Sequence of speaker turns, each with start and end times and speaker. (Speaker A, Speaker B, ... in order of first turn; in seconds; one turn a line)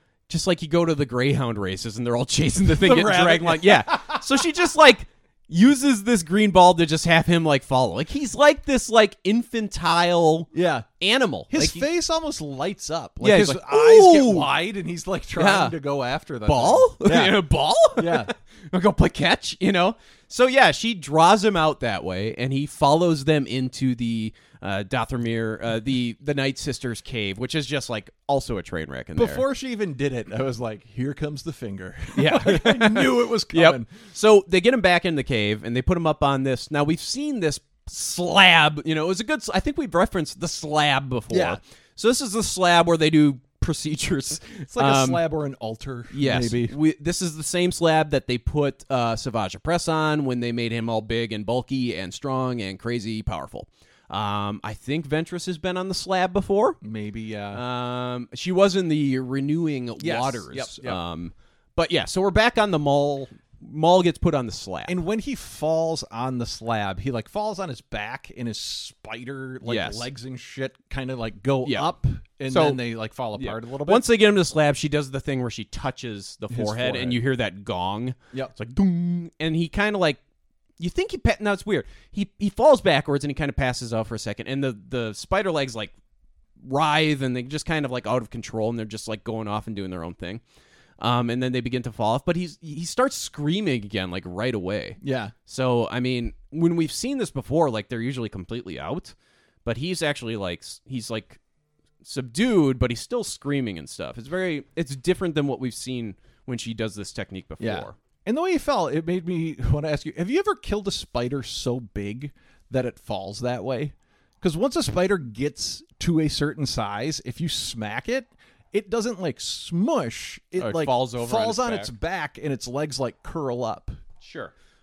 Speaker A: 0.3-11.9
Speaker B: 2.7-4.2
Speaker B: 10.5-10.9
Speaker B: 11.5-18.3
Speaker A: 13.2-14.5
Speaker A: 15.4-15.8
Speaker A: 16.4-29.5
Speaker B: 29.1-33.9
Speaker A: 32.1-45.2
Speaker B: 41.3-41.6
Speaker B: 44.7-46.8
Speaker A: 46.1-56.8
Speaker B: 56.8-57.6
Speaker A: 57.5-65.0
Speaker B: 60.0-61.0
Speaker B: 64.9-74.1
Speaker A: 69.7-70.1
Speaker A: 71.6-71.9
Speaker A: 72.5-72.8
Speaker A: 73.3-80.2
Speaker B: 76.5-77.2
Speaker A: 80.8-85.9
Speaker A: 86.6-90.4
Speaker A: 91.0-101.4
Speaker B: 95.0-95.3
Speaker A: 102.0-108.0
Speaker B: 107.6-124.0
Speaker A: 120.6-121.9
Speaker A: 124.2-124.5